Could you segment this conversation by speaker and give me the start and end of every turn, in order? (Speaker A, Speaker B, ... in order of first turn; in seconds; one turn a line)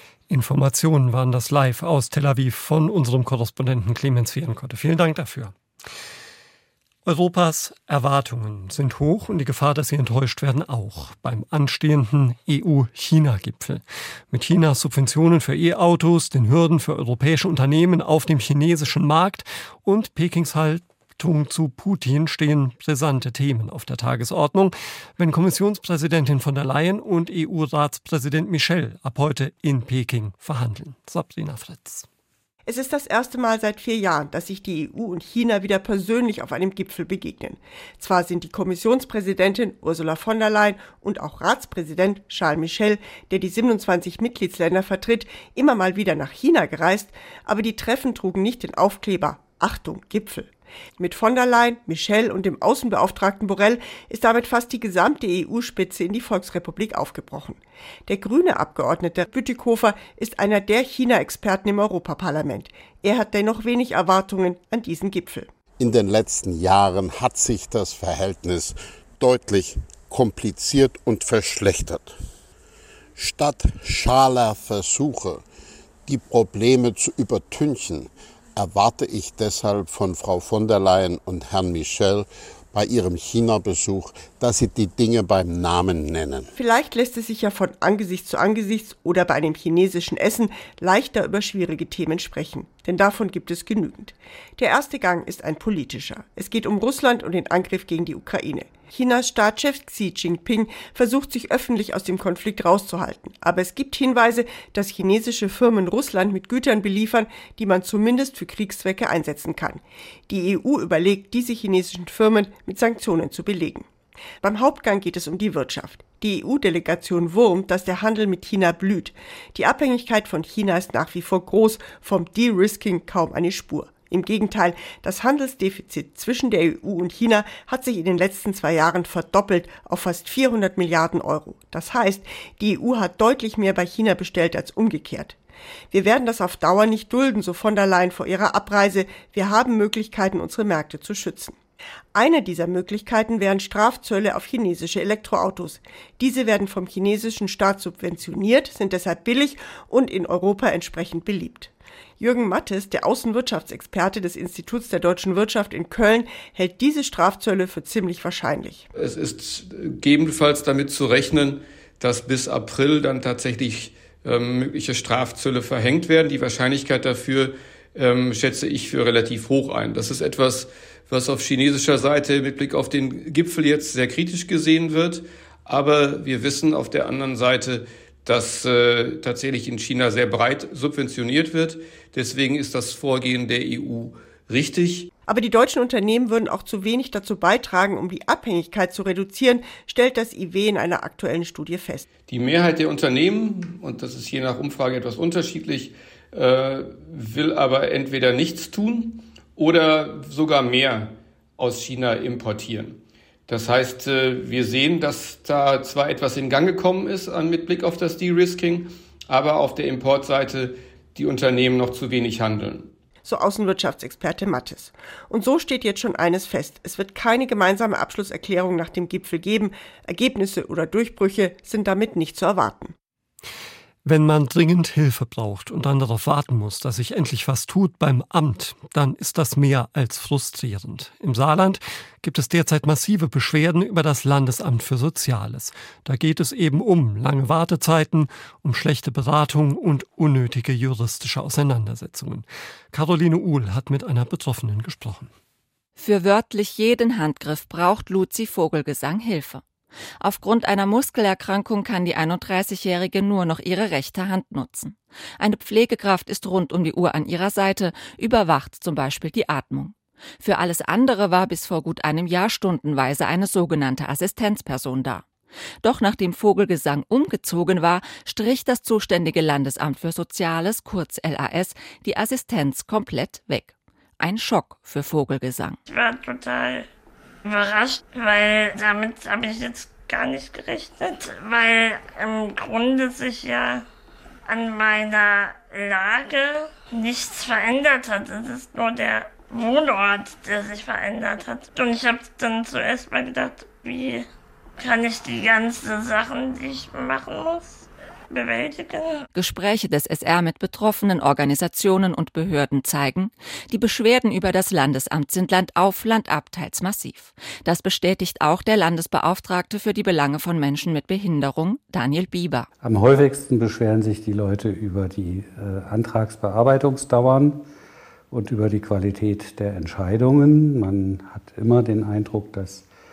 Speaker A: 0.3-5.5
Speaker A: 7.0-32.1
Speaker B: 32.7-65.5
Speaker C: 65.8-72.1
Speaker C: 73.2-75.4
Speaker C: 76.1-86.5
Speaker B: 86.6-113.9
Speaker B: 114.4-135.4
Speaker B: 135.9-141.6
Speaker B: 142.1-158.8
Speaker D: 158.9-185.1
Speaker B: 185.3-192.1
Speaker D: 192.2-212.9
Speaker B: 213.2-222.9
Speaker A: 224.1-245.3
Speaker E: 246.0-249.6
Speaker E: 250.2-265.3
Speaker E: 265.8-275.8
Speaker F: 275.9-276.9
Speaker F: 277.4-283.9
Speaker F: 284.5-294.3
Speaker F: 294.8-299.3
Speaker E: 299.3-312.7
Speaker G: 312.8-317.7
Speaker G: 318.3-322.9